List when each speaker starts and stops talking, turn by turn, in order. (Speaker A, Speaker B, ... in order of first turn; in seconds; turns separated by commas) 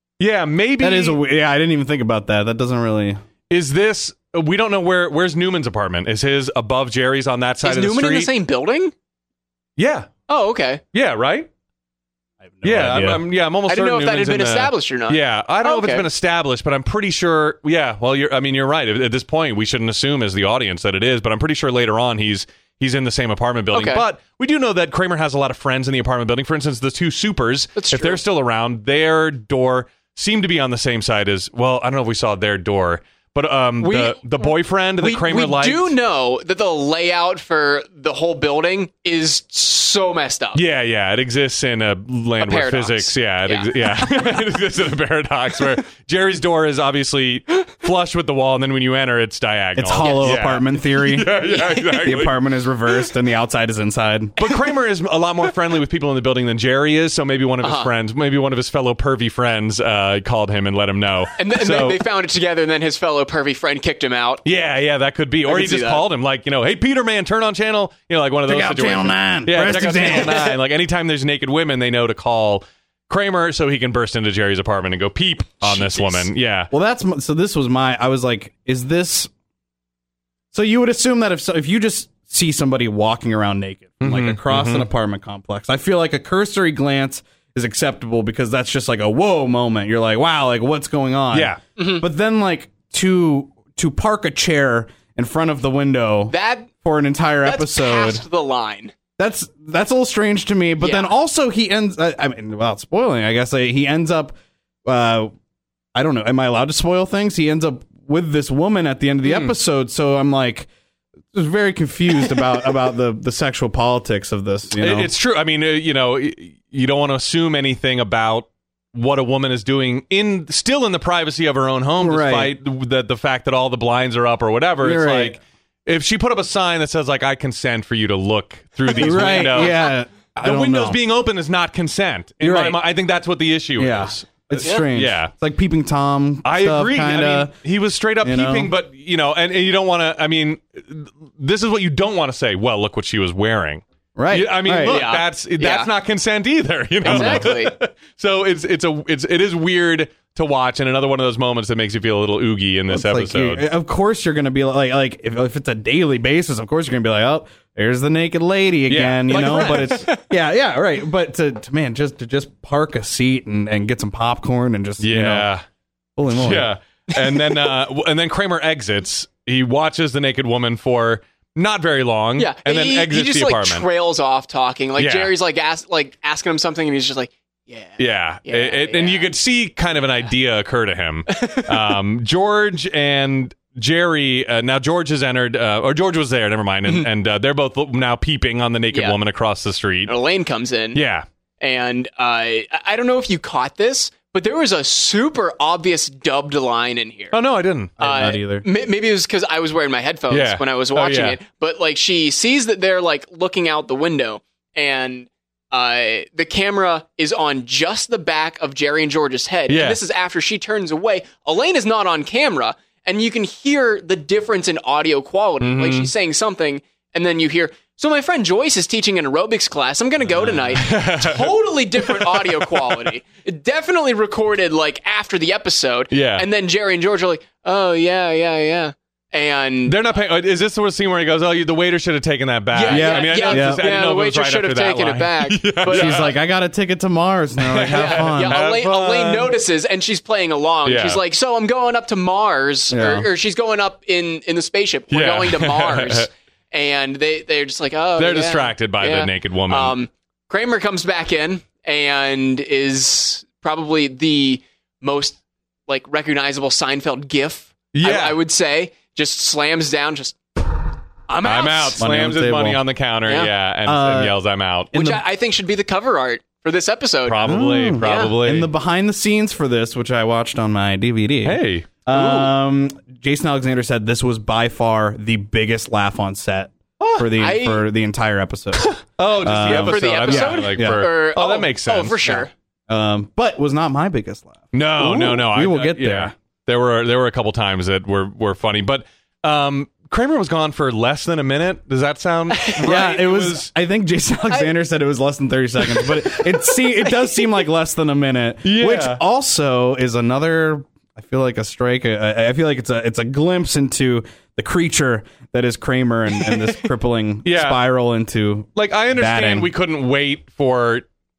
Speaker A: 0.2-1.2, Speaker B: 0.8-3.2, Speaker A: 3.5-8.3, Speaker C: 7.6-8.9, Speaker A: 9.8-10.1, Speaker C: 10.3-10.8, Speaker A: 10.9-11.5, Speaker B: 12.4-13.2, Speaker A: 12.6-35.9, Speaker C: 13.7-16.1, Speaker C: 23.7-24.0, Speaker C: 27.8-28.2, Speaker C: 33.8-40.6, Speaker A: 40.5-52.4, Speaker C: 42.4-44.3, Speaker B: 49.8-54.4, Speaker C: 50.0-50.5, Speaker C: 51.5-51.9, Speaker A: 54.4-62.0, Speaker C: 57.6-57.9, Speaker C: 61.4-64.4, Speaker A: 64.4-76.7, Speaker C: 65.4-66.0, Speaker B: 68.5-70.6, Speaker C: 75.7-76.2, Speaker B: 76.7-79.3, Speaker B: 80.5-98.2, Speaker A: 84.0-84.9, Speaker A: 91.3-91.6, Speaker C: 91.8-92.0, Speaker C: 96.3-96.7, Speaker C: 97.4-98.9, Speaker B: 99.2-105.3, Speaker C: 100.8-101.1, Speaker B: 105.9-110.7, Speaker B: 111.3-115.1, Speaker A: 114.8-135.3, Speaker B: 122.0-122.5, Speaker B: 124.8-125.4, Speaker B: 128.9-131.0, Speaker B: 132.4-132.8, Speaker B: 133.8-137.5, Speaker C: 134.6-134.9, Speaker A: 136.4-153.7, Speaker B: 138.2-138.7, Speaker B: 144.2-145.1, Speaker C: 144.8-145.9, Speaker C: 147.0-147.7, Speaker B: 147.0-147.5, Speaker B: 152.9-165.5, Speaker A: 158.9-160.1, Speaker C: 159.3-160.2, Speaker A: 165.0-165.6, Speaker B: 166.2-166.7, Speaker A: 166.3-173.9, Speaker C: 167.3-167.6, Speaker C: 172.4-179.3, Speaker A: 175.0-175.3, Speaker A: 178.0-190.1, Speaker C: 181.3-181.9, Speaker C: 188.9-189.2, Speaker C: 190.1-191.0, Speaker A: 190.9-191.2, Speaker C: 191.6-197.3, Speaker A: 197.3-198.0, Speaker B: 198.0-198.6, Speaker C: 198.0-230.1, Speaker A: 200.3-201.4, Speaker A: 209.7-210.0, Speaker A: 215.6-216.1, Speaker A: 220.4-223.1, Speaker A: 226.1-226.4, Speaker A: 229.8-236.3, Speaker C: 232.7-236.3, Speaker B: 232.9-233.8, Speaker B: 235.8-238.6, Speaker A: 237.6-239.5, Speaker C: 237.8-260.4, Speaker A: 240.8-241.2, Speaker B: 242.9-243.3, Speaker A: 245.1-246.3, Speaker A: 248.2-249.9, Speaker A: 257.9-258.4, Speaker C: 261.3-262.0, Speaker A: 261.4-264.9, Speaker B: 262.0-262.8, Speaker C: 263.2-263.5, Speaker B: 263.8-264.4, Speaker B: 264.9-265.2, Speaker C: 264.9-268.4, Speaker A: 267.2-268.7, Speaker B: 267.4-281.1, Speaker A: 271.4-271.9, Speaker C: 272.1-272.5, Speaker A: 277.0-277.3, Speaker C: 277.4-277.8, Speaker A: 278.8-282.4, Speaker C: 279.6-282.5, Speaker B: 282.9-286.3, Speaker A: 284.7-293.7, Speaker C: 292.5-292.8, Speaker B: 292.8-309.7, Speaker C: 297.1-297.4, Speaker A: 298.6-299.2, Speaker A: 307.4-307.8, Speaker A: 308.8-311.1